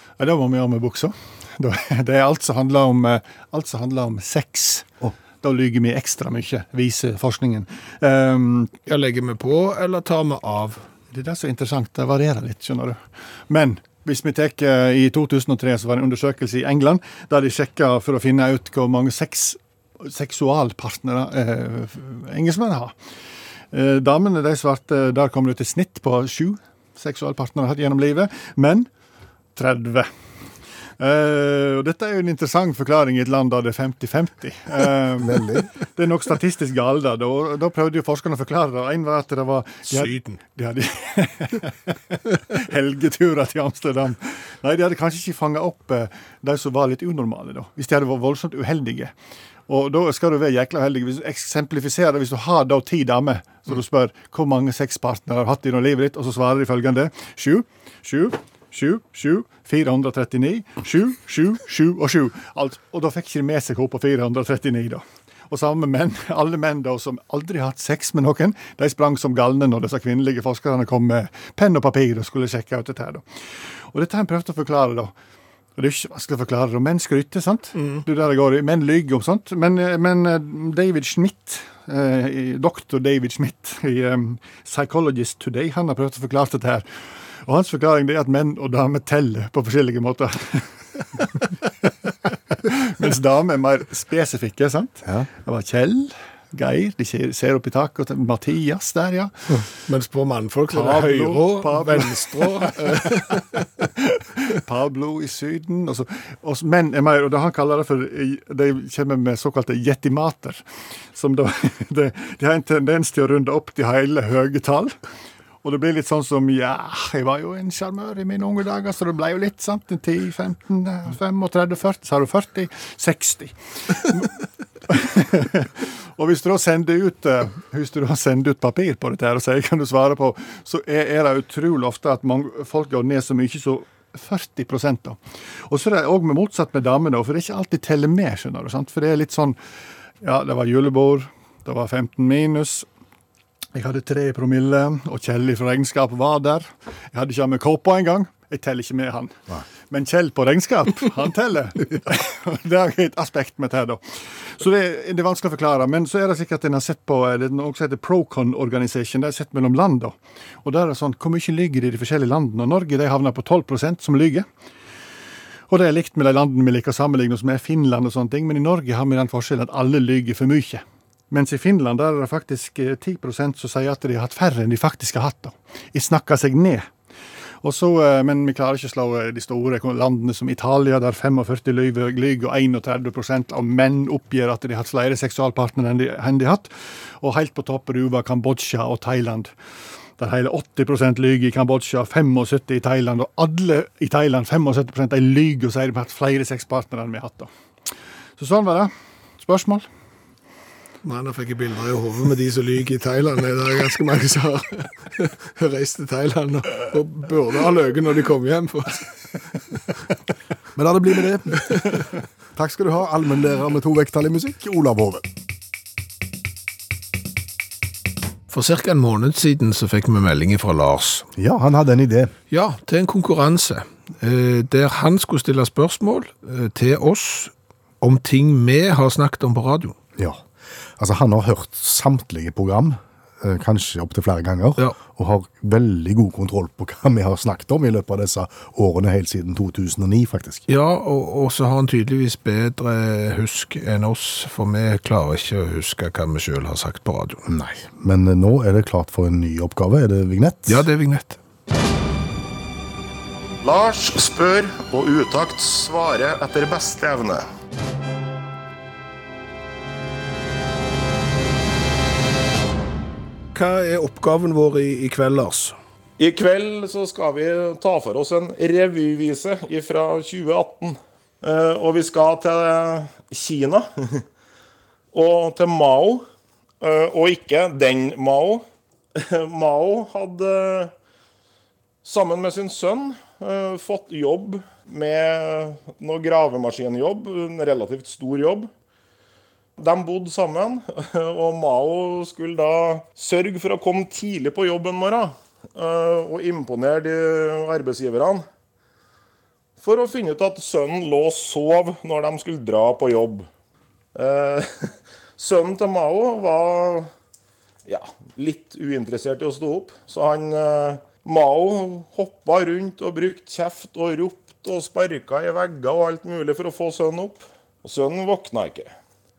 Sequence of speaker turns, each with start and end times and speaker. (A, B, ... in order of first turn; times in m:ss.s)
0:00.2-0:04.9 A
0:05.4-0:08.7 A
0:08.9-0:10.8 B
0:11.1-0:22.9 A
0:23.7-0:28.9 A
0:29.6-0:30.1 A
0:31.0-0:49.1 A
0:35.2-0:35.7 C
0:39.9-0:40.4 B
0:49.7-1:13.2 A
1:13.9-1:15.1 A
1:15.8-1:26.9 A
1:17.8-1:18.0 B
1:27.4-1:31.5 A
1:32.5-1:39.5 A
1:39.9-1:43.7 B
1:40.7-1:54.9 A
1:55.6-2:04.3 A
2:04.9-2:19.6 A
2:20.2-2:22.9 A
2:23.7-2:44.5 A
2:45.7-2:56.9 A
2:57.6-3:09.5 A
3:10.2-3:17.5 A
3:18.4-3:19.8 A
3:21.0-3:29.6 B
3:30.8-3:32.0 C
3:31.7-3:32.0 B
3:32.5-3:35.2 C
3:38.5-3:41.3 B
3:41.4-3:42.3 C
3:42.5-3:50.0 B
3:50.2-3:50.4 C
3:51.0-4:00.7 C
4:00.7-4:07.4 B
4:07.5-4:10.8 C
4:10.7-4:11.4 B
4:13.6-4:17.5 D
4:23.5-4:25.8 B
4:26.2-4:34.2 D
4:35.1-4:36.2 D
4:36.8-4:38.6 D
4:39.1-4:40.9 D
4:42.0-4:48.7 D
4:49.8-4:58.4 D
4:59.8-5:03.5 D
5:04.1-5:07.1 D
5:07.9-5:18.9 D